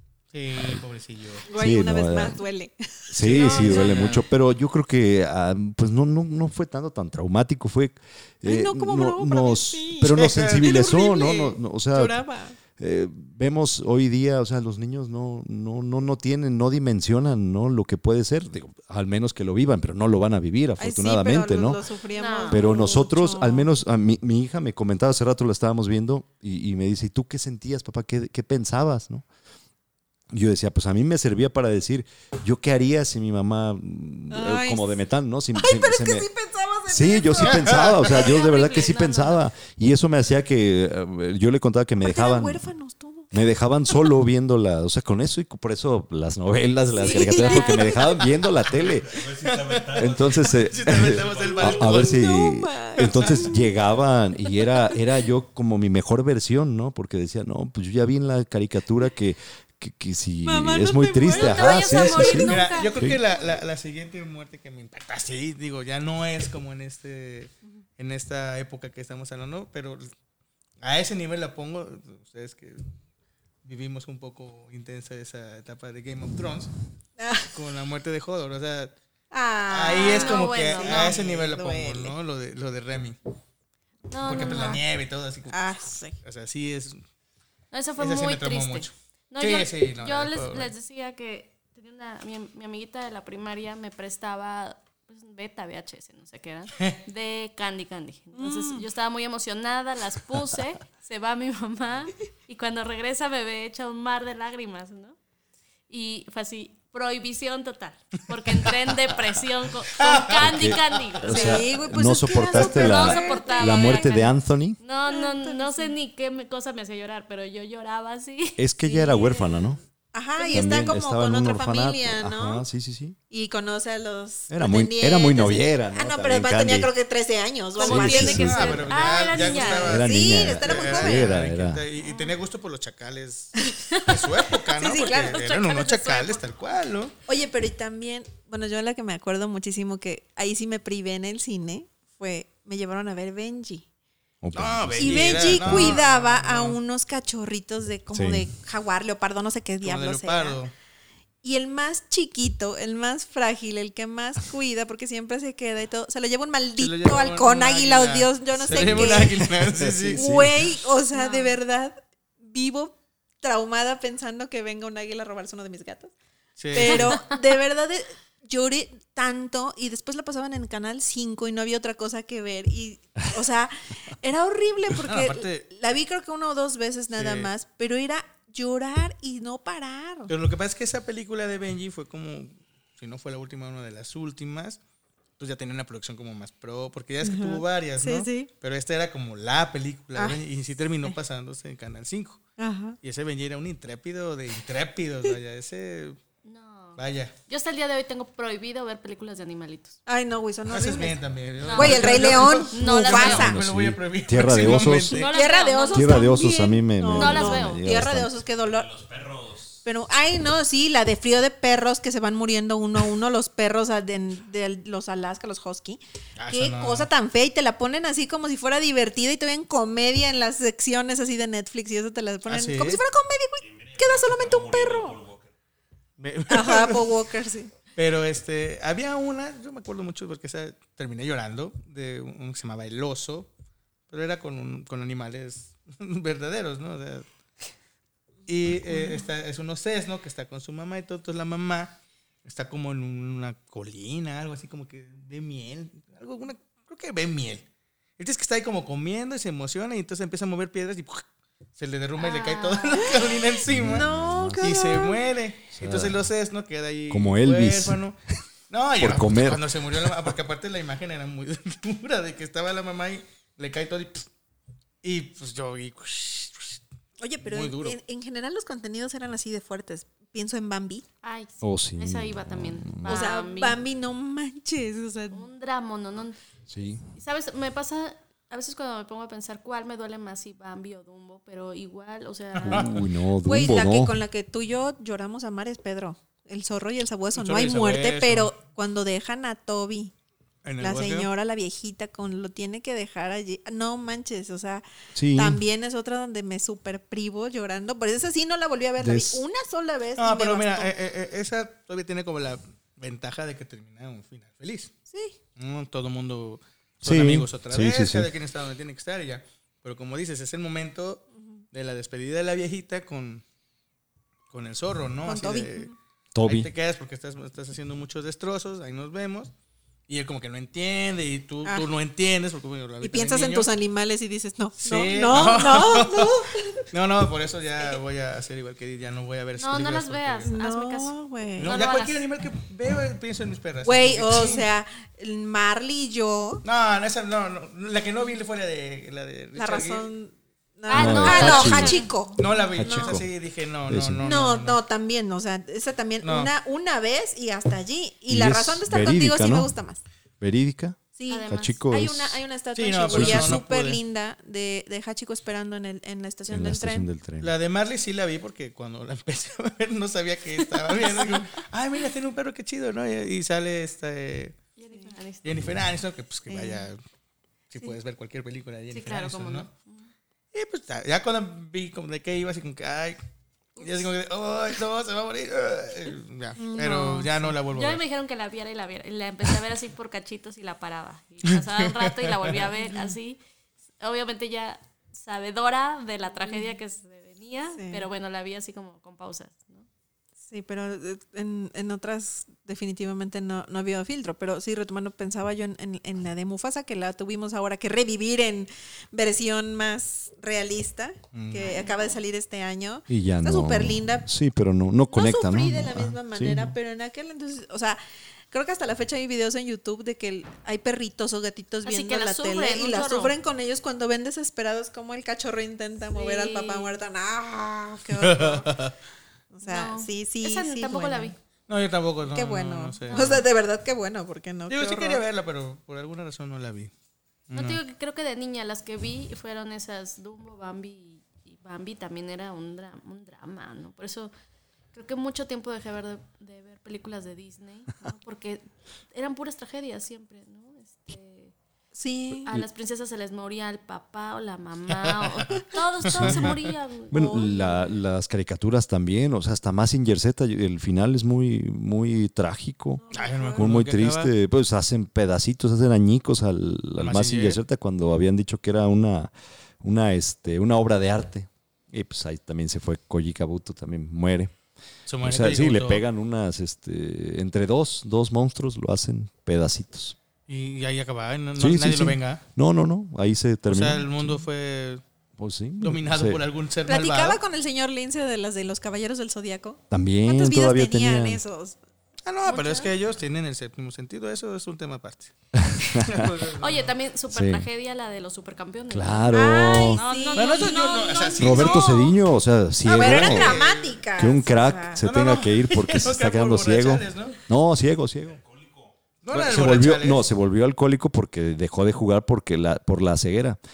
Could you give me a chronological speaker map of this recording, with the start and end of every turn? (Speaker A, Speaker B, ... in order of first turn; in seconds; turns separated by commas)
Speaker A: 0.3-1.5, Speaker B: 0.6-0.8, Speaker C: 1.4-4.2, Speaker B: 1.5-2.4, Speaker B: 3.1-12.2, Speaker A: 3.2-4.2, Speaker C: 8.4-12.6, Speaker A: 10.1-11.5, Speaker B: 12.8-21.8, Speaker C: 20.8-23.7, Speaker D: 22.1-22.9, Speaker B: 22.5-29.2, Speaker B: 30.3-36.3, Speaker C: 34.3-35.0, Speaker C: 35.5-38.1, Speaker B: 36.9-42.6, Speaker D: 38.0-39.4, Speaker C: 42.0-44.1, Speaker B: 43.3-49.2, Speaker C: 46.9-48.2, Speaker E: 48.6-52.1, Speaker A: 49.4-52.2, Speaker B: 50.0-63.2, Speaker C: 51.9-53.7, Speaker A: 53.0-53.5, Speaker C: 60.4-63.1, Speaker D: 61.3-62.9, Speaker A: 62.4-70.1, Speaker A: 70.8-72.8, Speaker A: 73.6-76.7, Speaker C: 77.2-77.5, Speaker A: 77.5-78.9, Speaker C: 79.3-82.1, Speaker A: 79.7-83.2, Speaker D: 79.8-81.2, Speaker D: 84.1-84.8, Speaker A: 84.2-87.0, Speaker C: 84.2-84.8, Speaker C: 85.5-86.2, Speaker D: 87.7-105.2, Speaker A: 88.0-90.7, Speaker C: 98.3-98.8, Speaker D: 105.9-111.6, Speaker A: 110.0-110.4, Speaker B: 110.3-114.8, Speaker C: 111.2-114.1, Speaker D: 112.5-119.6, Speaker C: 115.1-115.9, Speaker B: 118.6-119.8, Speaker C: 119.0-119.4, Speaker C: 120.1-122.6, Speaker D: 120.4-120.7, Speaker B: 120.5-123.2, Speaker C: 123.3-131.4, Speaker B: 124.5-126.9, Speaker D: 127.8-130.0, Speaker B: 127.8-128.9, Speaker A: 128.1-137.1, Speaker B: 129.8-131.8, Speaker D: 132.0-132.3, Speaker C: 134.8-135.3, Speaker D: 134.8-136.4, Speaker C: 137.3-143.8, Speaker B: 144.4-146.0, Speaker A: 144.5-146.8, Speaker C: 145.0-150.6, Speaker B: 148.1-148.4, Speaker A: 149.8-150.7, Speaker C: 151.4-166.1, Speaker A: 156.8-160.4, Speaker B: 158.7-160.7, Speaker D: 161.1-161.6, Speaker A: 166.6-167.2, Speaker C: 166.7-180.3, Speaker D: 166.8-167.3, Speaker A: 175.0-175.7, Speaker A: 177.1-177.5, Speaker A: 180.3-184.8, Speaker A: 185.4-192.4, Speaker C: 187.2-188.5, Speaker C: 190.2-190.4, Speaker C: 192.6-193.0, Speaker A: 193.0-196.2, Speaker D: 196.4-200.0, Speaker A: 197.0-197.3, Speaker C: 200.1-203.6, Speaker A: 200.7-205.4, Speaker D: 201.6-203.5, Speaker B: 202.8-205.2, Speaker D: 205.1-206.4, Speaker C: 205.2-208.9, Speaker B: 205.9-208.3, Speaker D: 207.1-207.8, Speaker E: 208.6-209.8, Speaker C: 209.8-225.2, Speaker A: 216.4-217.1, Speaker A: 222.4-223.0, Speaker E: 223.6-225.5, Speaker A: 226.2-227.2, Speaker C: 226.5-227.7, Speaker A: 227.9-233.5, Speaker A: 234.1-237.2, Speaker A: 238.4-247.6, Speaker C: 238.9-239.2, Speaker A: 248.2-251.2, Speaker A: 251.8-254.1, Speaker D: 252.2-253.2, Speaker C: 253.0-253.3, Speaker B: 253.7-254.7, Speaker C: 253.8-255.2, Speaker A: 254.6-258.2, Speaker B: 255.7-256.2, Speaker B: 257.1-258.0, Speaker A: 258.7-264.3, Speaker B: 259.0-260.3, Speaker A: 265.0-266.8, Speaker C: 267.2-271.1, Speaker A: 267.4-268.0, Speaker D: 271.2-273.8, Speaker B: 271.6-273.2, Speaker C: 273.0-275.4, Speaker D: 275.3-276.4, Speaker B: 276.7-277.1, Speaker D: 277.1-282.9, Speaker A: 282.6-283.0, Speaker B: 282.6-284.2, Speaker C: 283.4-290.1, Speaker A: 287.3-288.5, Speaker A: 290.6-291.3, Speaker C: 290.8-294.8, Speaker B: 295.1-295.6, Speaker C: 295.3-300.9, Speaker B: 299.0-299.4, Speaker A: 300.2-304.9, Speaker C: 305.1-305.4, Speaker A: 305.6-313.4, Speaker B: 307.0-308.3, Speaker A: 314.5-315.9, Speaker C: 315.2-315.9, Speaker B: 316.3-316.7, Speaker A: 316.4-319.5, Speaker A: 320.1-323.7, Speaker C: 323.0-326.9, Speaker A: 324.8-330.5, Speaker D: 329.6-332.2, Speaker C: 330.5-331.8, Speaker A: 331.6-334.6, Speaker C: 333.8-336.6, Speaker A: 336.6-340.1, Speaker C: 339.6-343.2, Speaker D: 340.9-342.1, Speaker B: 340.9-342.0, Speaker A: 341.3-341.7, Speaker A: 342.4-344.8, Speaker B: 342.7-343.3, Speaker B: 343.9-344.2, Speaker C: 344.2-350.0, Speaker A: 346.2-346.5, Speaker B: 348.3-349.7, Speaker B: 350.4-352.4, Speaker C: 351.1-357.1, Speaker D: 351.3-351.8, Speaker A: 352.7-354.0, Speaker B: 353.1-353.6, Speaker B: 356.5-357.5, Speaker A: 357.4-364.6, Speaker D: 364.8-365.6, Speaker A: 365.4-367.0, Speaker C: 366.5-366.9, Speaker A: 367.7-369.7, Speaker D: 368.9-370.1, Speaker A: 370.5-373.2, Speaker D: 373.8-374.1, Speaker A: 373.8-378.0, Speaker C: 376.6-377.3, Speaker D: 377.7-383.4, Speaker A: 381.6-382.6, Speaker D: 384.0-389.9, Speaker C: 387.8-388.0, Speaker C: 390.4-404.3, Speaker A: 401.3-401.8, Speaker D: 401.6-402.2, Speaker B: 403.1-406.7, Speaker C: 405.1-408.0, Speaker C: 408.5-418.9, Speaker D: 411.8-413.3, Speaker D: 416.1-416.9, Speaker A: 418.1-418.9, Speaker C: 419.5-421.3, Speaker D: 419.6-421.4, Speaker A: 421.7-423.4, Speaker C: 422.3-425.2, Speaker D: 423.1-423.4, Speaker A: 424.7-426.9, Speaker A: 427.5-427.8, Speaker D: 427.5-434.3, Speaker D: 434.9-441.5, Speaker C: 441.9-442.5, Speaker D: 442.4-447.6, Speaker A: 445.0-445.3, Speaker B: 446.1-446.6, Speaker A: 446.1-446.6, Speaker B: 447.1-453.0, Speaker C: 447.1-447.9, Speaker C: 453.0-453.7, Speaker A: 453.1-454.3, Speaker B: 453.5-464.5, Speaker A: 457.0-457.6, Speaker A: 465.1-466.0, Speaker B: 465.2-470.1, Speaker A: 470.5-472.4, Speaker B: 471.6-474.4, Speaker A: 473.6-475.0, Speaker B: 475.4-476.4, Speaker A: 475.8-477.4, Speaker C: 476.9-481.8, Speaker B: 479.9-481.4, Speaker A: 482.2-485.3, Speaker D: 482.4-482.9, Speaker B: 485.5-486.3, Speaker A: 485.8-486.9, Speaker D: 486.6-492.1, Speaker B: 487.3-487.7, Speaker B: 488.9-490.0, Speaker C: 489.3-491.0, Speaker A: 490.3-492.1, Speaker B: 491.4-493.6, Speaker C: 492.8-495.0, Speaker A: 492.9-494.0, Speaker B: 494.2-498.4, Speaker A: 495.0-497.4, Speaker E: 498.2-499.0, Speaker A: 499.2-500.3, Speaker B: 499.3-503.6